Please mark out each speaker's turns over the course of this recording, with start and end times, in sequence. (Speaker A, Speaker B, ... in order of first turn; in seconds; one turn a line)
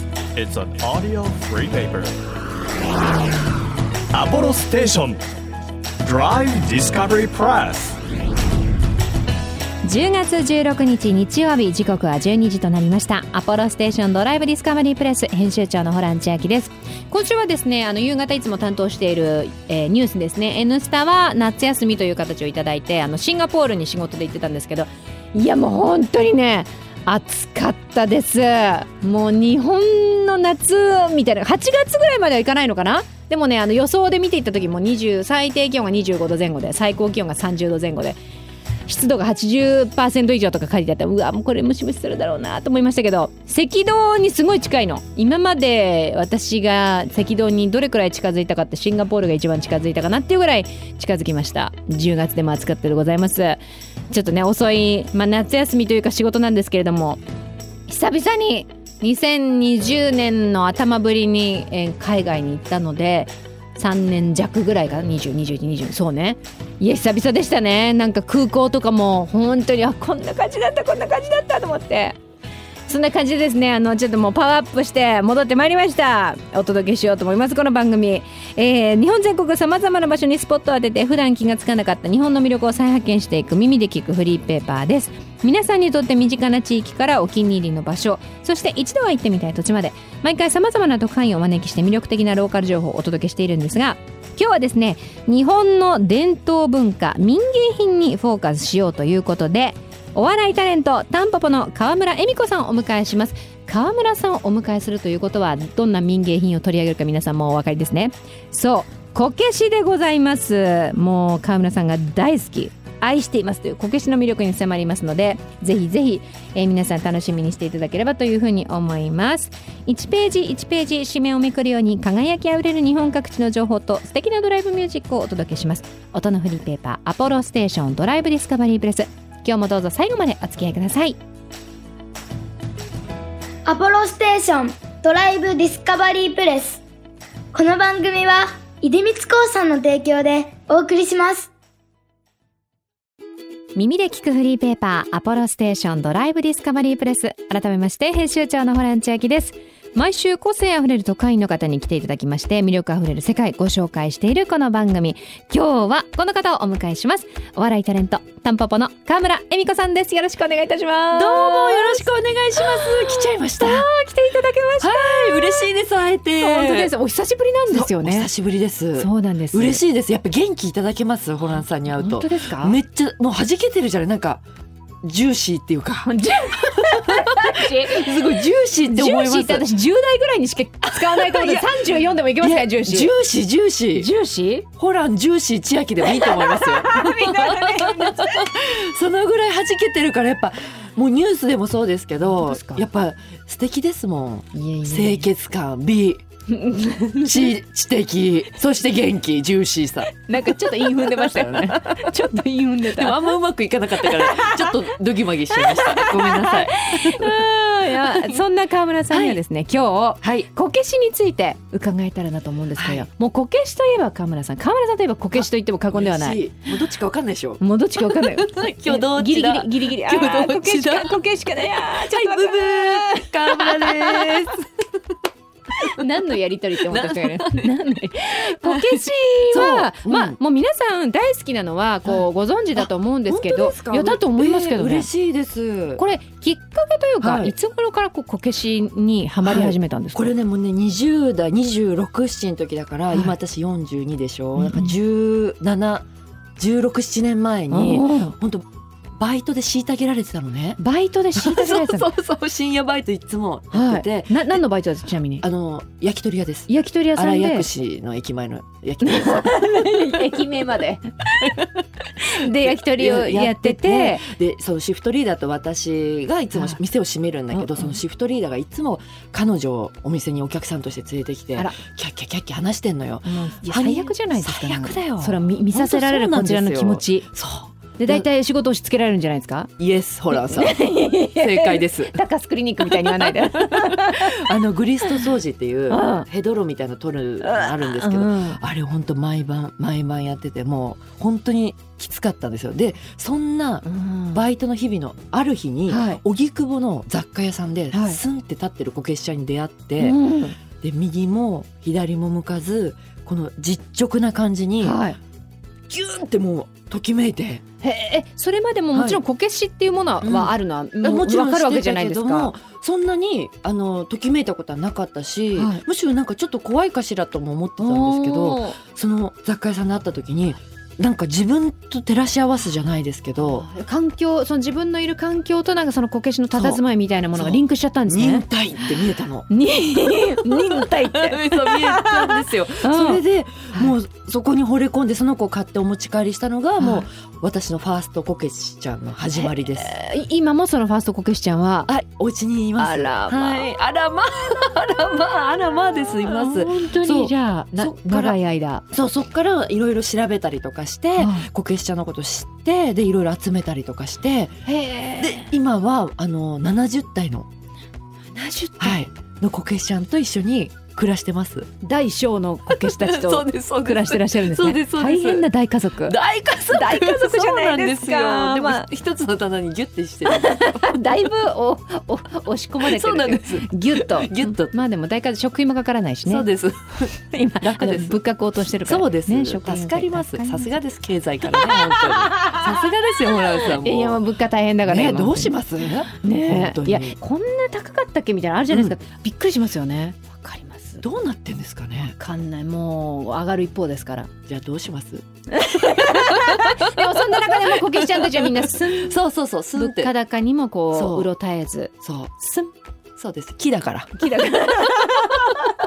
Speaker A: 0.4-2.1
Speaker A: 4.1-5.2
Speaker A: 6.0-8.0
Speaker B: 9.8-38.2
Speaker B: 38.9-57.2
Speaker B: 57.9-72.2
Speaker B: 72.9-131.2
Speaker C: 133.7-136.8
Speaker C: 137.5-141.5
Speaker B: 143.8-165.7
Speaker D: 161.1-163.9
Speaker D: 164.8-166.9
Speaker B: 166.4-168.3
Speaker D: 167.7-174.4
Speaker B: 169.0-169.8
Speaker B: 171.9-172.8
Speaker D: 175.0-176.1
Speaker B: 176.0-178.2
Speaker D: 176.9-179.7
Speaker B: 178.8-183.1
Speaker D: 180.8-181.7
Speaker D: 182.4-184.1
Speaker B: 183.9-184.7
Speaker D: 184.8-196.2
Speaker B: 186.1-188.5
Speaker B: 192.2-192.8
Speaker B: 194.5-195.3
Speaker B: 196.5-197.5
Speaker D: 197.2-202.2
Speaker B: 200.1-203.3
Speaker D: 202.8-208.4
Speaker B: 204.0-204.9
Speaker B: 205.5-216.4
Speaker D: 209.1-209.4
Speaker D: 210.2-210.5
Speaker D: 212.8-213.1
Speaker D: 215.4-224.7
Speaker B: 217.6-224.4
Speaker B: 225.9-235.1
Speaker D: 226.9-227.7
Speaker D: 228.4-230.4
Speaker D: 232.1-236.0
Speaker B: 236.0-240.3
Speaker D: 237.2-237.6
Speaker D: 239.4-246.1
Speaker B: 243.1-243.3
Speaker B: 244.6-244.9
Speaker D: 246.6-248.7
Speaker B: 247.7-248.4
Speaker D: 249.2-250.8
Speaker B: 250.8-252.1
Speaker D: 251.3-254.6
Speaker B: 253.7-255.5
Speaker D: 255.4-260.4
Speaker B: 256.7-257.7
Speaker B: 259.0-261.6
Speaker B: 262.2-264.3
Speaker D: 262.4-278.3
Speaker B: 267.5-268.0
Speaker B: 273.2-277.3
Speaker B: 278.0-279.7
Speaker D: 279.8-282.1
Speaker B: 280.3-284.3
Speaker D: 282.8-300.2
Speaker B: 285.9-286.3
Speaker B: 287.4-288.6
Speaker B: 293.9-294.4
Speaker B: 295.9-296.2
Speaker B: 297.9-298.2
Speaker B: 300.0-300.6
Speaker D: 300.8-305.0
Speaker B: 304.8-305.2
Speaker D: 305.9-307.6
Speaker B: 307.8-312.5
Speaker D: 308.9-309.2
Speaker D: 310.2-323.7
Speaker B: 315.6-315.8
Speaker B: 317.8-318.8
Speaker B: 323.4-328.9
Speaker D: 326.5-326.8
Speaker D: 327.3-329.5
Speaker B: 329.5-333.2
Speaker D: 330.1-339.9
Speaker B: 336.8-337.0
Speaker B: 339.4-341.9
Speaker D: 341.9-348.4
Speaker B: 342.8-343.7
Speaker B: 346.2-348.9
Speaker D: 348.9-354.6
Speaker B: 351.2-351.5
Speaker B: 354.6-355.5
Speaker D: 355.2-357.5
Speaker B: 358.3-359.0
Speaker D: 358.8-361.7
Speaker B: 361.8-366.2
Speaker D: 362.7-371.0
Speaker B: 366.7-368.9
Speaker B: 370.2-376.5
Speaker D: 372.8-374.8
Speaker D: 376.2-378.2
Speaker B: 377.2-380.8
Speaker D: 378.8-384.2
Speaker B: 381.6-382.8
Speaker B: 383.5-385.6
Speaker D: 384.8-387.2
Speaker B: 386.1-391.0
Speaker D: 388.7-389.0
Speaker D: 391.0-392.2
Speaker B: 392.1-394.3
Speaker D: 394.5-396.8
Speaker B: 395.5-399.1
Speaker D: 397.6-400.1
Speaker B: 399.8-401.9
Speaker D: 400.9-401.3
Speaker D: 402.0-402.4
Speaker B: 402.4-402.7
Speaker D: 403.2-405.5
Speaker B: 404.2-405.7